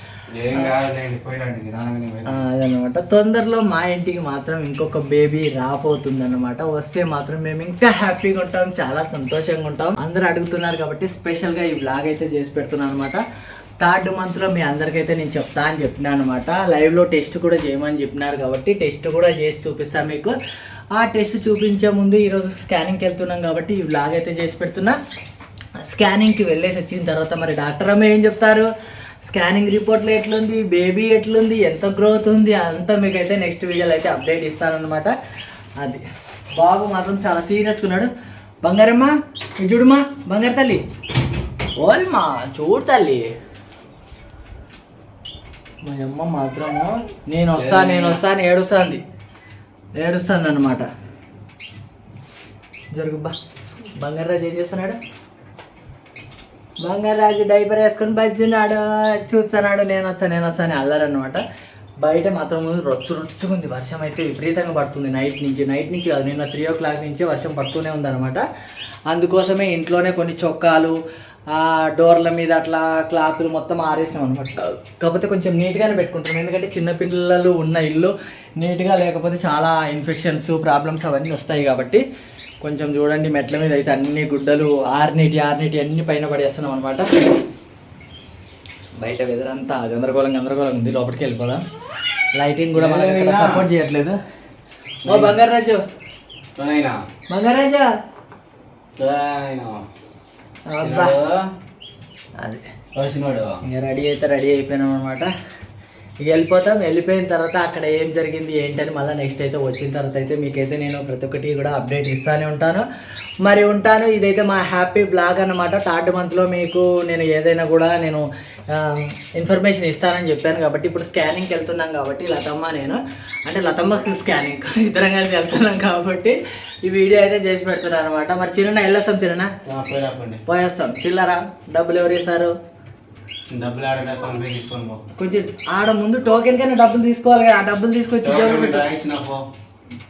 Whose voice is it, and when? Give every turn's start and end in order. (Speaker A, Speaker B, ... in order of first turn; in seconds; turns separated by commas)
Speaker A: 0.3-2.4, Speaker B: 2.3-13.2, Speaker B: 13.8-20.3, Speaker B: 20.9-25.0, Speaker B: 25.8-28.7, Speaker B: 29.3-35.1, Speaker B: 36.5-38.1, Speaker B: 38.6-40.8, Speaker B: 41.8-43.2, Speaker B: 45.8-49.0, Speaker A: 47.6-48.2, Speaker B: 50.0-50.9, Speaker B: 52.9-53.3, Speaker B: 53.9-55.0, Speaker B: 56.8-61.4, Speaker B: 62.0-68.4, Speaker B: 69.1-71.0, Speaker B: 71.5-82.0, Speaker B: 82.6-87.1, Speaker B: 89.0-91.6, Speaker B: 92.4-94.2, Speaker A: 92.7-93.7, Speaker A: 95.0-95.4, Speaker B: 95.0-95.8, Speaker A: 96.6-97.0, Speaker B: 97.3-97.8, Speaker A: 99.0-99.9, Speaker B: 100.7-101.1, Speaker A: 100.8-101.5, Speaker A: 102.9-103.6, Speaker B: 103.6-105.3, Speaker B: 106.2-112.8, Speaker B: 113.4-129.5, Speaker A: 129.7-130.4, Speaker B: 130.4-132.5, Speaker A: 133.5-135.0, Speaker B: 135.2-138.9, Speaker A: 138.2-139.4